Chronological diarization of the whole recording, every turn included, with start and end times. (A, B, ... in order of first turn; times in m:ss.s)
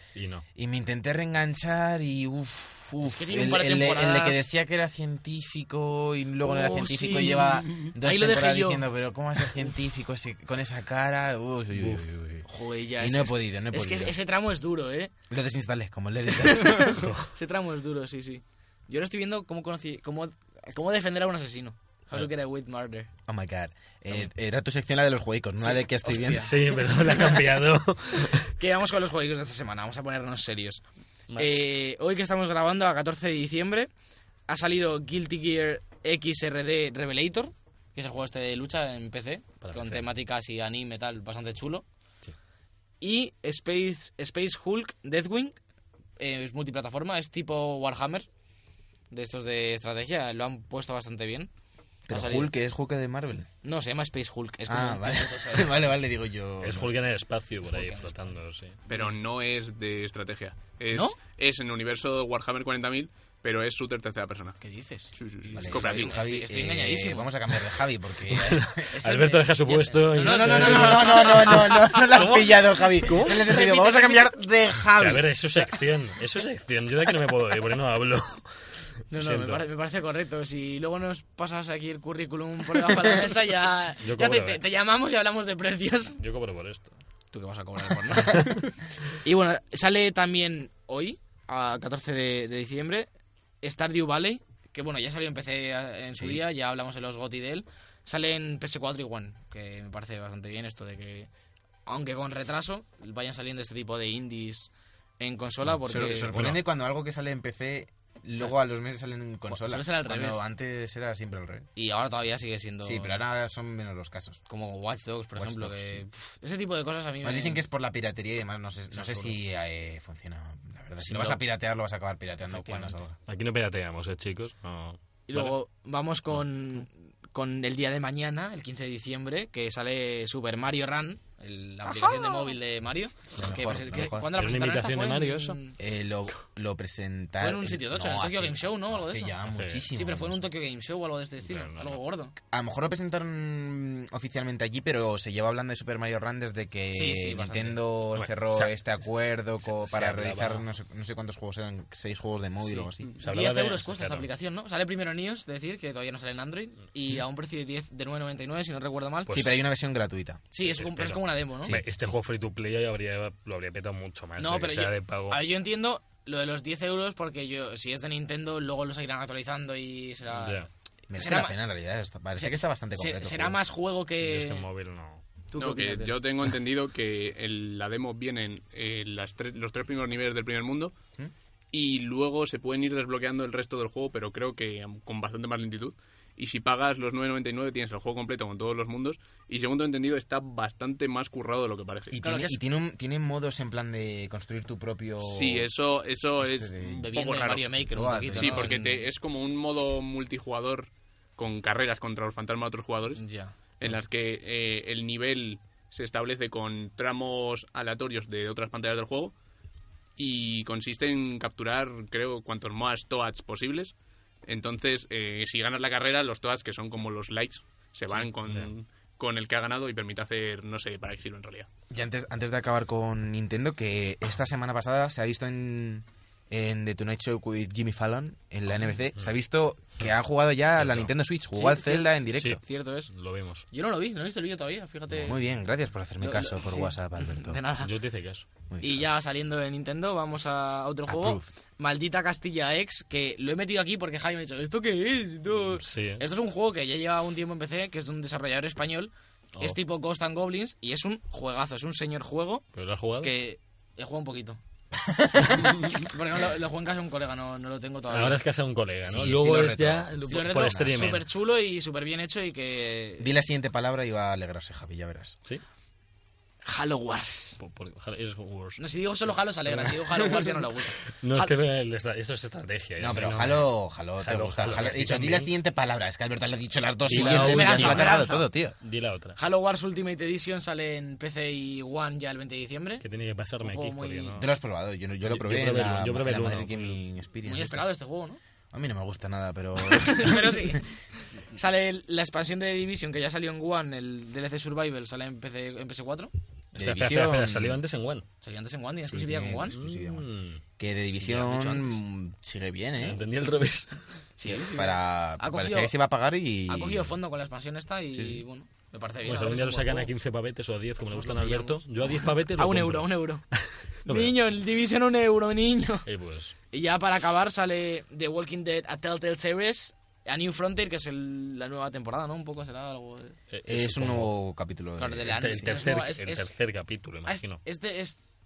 0:00.2-0:00.4 A
0:00.6-0:12.5 B
0:03.0-0:04.5 C
0:06.4-0:08.9 C
0:09.4-0:09.7 C
0:11.7-0:12.1 A
0:12.5-0:15.1 C
0:13.0-0:14.2 B
0:15.3-0:17.0 B
0:16.3-0:23.1 C
0:17.0-0:17.3 A
0:23.3-0:26.5 B
0:25.6-0:27.6 C
0:26.4-0:28.5 A
0:28.2-0:30.8 C
0:31.3-0:31.6 A
0:31.4-0:33.9 C
0:34.5-0:41.8 C
0:39.6-0:40.1 A
0:43.0-0:45.6 C
0:46.2-0:48.3 C
0:49.1-0:51.5 C
0:52.1-0:53.5 B
0:52.1-0:52.5 C
0:53.6-0:55.8 C
0:54.7-0:57.0 B
0:56.6-0:58.8 A
0:57.7-0:59.2 C
0:58.9-1:04.6 D
1:00.9-1:01.2 C
1:04.6-1:07.3 C
1:05.1-1:06.2 D
1:05.5-1:08.9 B
1:08.3-1:13.5 A
1:08.9-1:14.4 C
1:10.2-1:15.3 B
1:15.0-1:18.5 A
1:19.1-1:26.2 C
1:19.2-1:19.7 A
1:24.0-1:24.6 A
1:26.2-1:26.9 A
1:27.3-1:33.1 C
1:28.1-1:28.6 A
1:33.6-1:41.3 C
1:41.9-1:46.4 C
1:45.7-1:46.6 A
1:45.9-1:51.7 B
1:49.5-1:50.4 C
1:51.8-1:53.2 C
1:52.8-1:54.4 B
1:54.5-1:57.6 C
1:55.4-1:56.0 B
1:57.2-2:03.2 B
1:58.9-1:59.4 C
2:01.0-2:01.4 C
2:02.5-2:03.0 C
2:03.3-2:05.6 A
2:05.3-2:15.8 C
2:11.8-2:12.6 B
2:13.4-2:14.3 B
2:14.0-2:15.6 A
2:15.8-2:20.4 B
2:17.4-2:19.4 C
2:19.5-2:19.9 A
2:19.9-2:22.4 C
2:21.4-2:22.0 A
2:22.5-2:33.2 B
2:26.9-2:27.8 C
2:28.1-2:28.7 A
2:29.6-2:30.6 A
2:32.6-2:39.6 C
2:33.2-2:34.3 A
2:39.3-2:39.6 A
2:39.3-2:40.4 B
2:40.5-2:41.8 C
2:40.6-2:45.4 A
2:44.4-2:50.6 C
2:50.3-2:50.7 A
2:51.1-2:53.6 B
2:51.2-2:51.6 C
2:52.4-2:54.7 C
2:54.2-2:55.2 A
2:55.5-2:56.2 C
2:55.6-3:00.9 D
3:01.7-3:12.2 D
3:12.1-3:15.7 B
3:12.2-3:12.6 C
3:15.2-3:17.7 D
3:16.4-3:17.1 B
3:17.0-3:19.0 C
3:17.8-3:18.9 B
3:18.3-3:23.2 D
3:23.2-3:23.5 C
3:23.8-3:29.3 D
3:30.2-3:33.9 D
3:34.5-3:41.7 D
3:41.9-3:52.6 B
3:50.8-3:51.1 A
3:51.5-3:53.1 C
3:52.4-3:53.6 A
3:53.7-3:55.4 C
3:55.2-3:57.6 B
3:56.2-3:58.0 C
3:57.8-3:58.5 A
3:58.7-3:59.0 B
3:58.8-4:14.6 C
4:01.1-4:01.5 B
4:05.7-4:06.2 A
4:12.8-4:13.3 A
4:15.1-4:15.8 B
4:15.8-4:18.4 C
4:18.1-4:21.3 A
4:19.1-4:21.2 B
4:20.3-4:23.3 C
4:23.2-4:25.4 B
4:26.6-4:27.6 C
4:27.6-4:28.8 A
4:28.8-4:31.6 C
4:31.2-4:35.5 A
4:33.0-4:38.8 B
4:37.1-4:38.3 A
4:37.1-4:38.5 C
4:38.8-4:39.4 A
4:39.4-4:43.0 C
4:43.0-4:44.5 A
4:43.6-4:44.4 C
4:44.4-4:47.9 B
4:45.3-4:47.0 A
4:47.4-4:48.4 C
4:48.7-4:50.8 B
4:49.8-4:56.3 C
4:56.7-4:58.3 A
4:56.8-4:57.8 B
4:58.4-4:59.8 C
4:59.0-5:00.3 B
4:59.7-5:00.6 A
5:00.8-5:03.2 B
5:01.2-5:02.0 C
5:03.0-5:04.0 A
5:04.4-5:05.9 C
5:04.5-5:07.2 B
5:06.7-5:10.1 C
5:08.1-5:08.4 B
5:09.2-5:14.4 A
5:11.1-5:13.5 C
5:14.1-5:16.1 C
5:16.1-5:16.5 A
5:16.7-5:23.4 C
5:23.5-5:24.3 A
5:23.7-5:25.8 B
5:25.0-5:26.5 C
5:25.3-5:27.6 A
5:27.2-5:28.2 C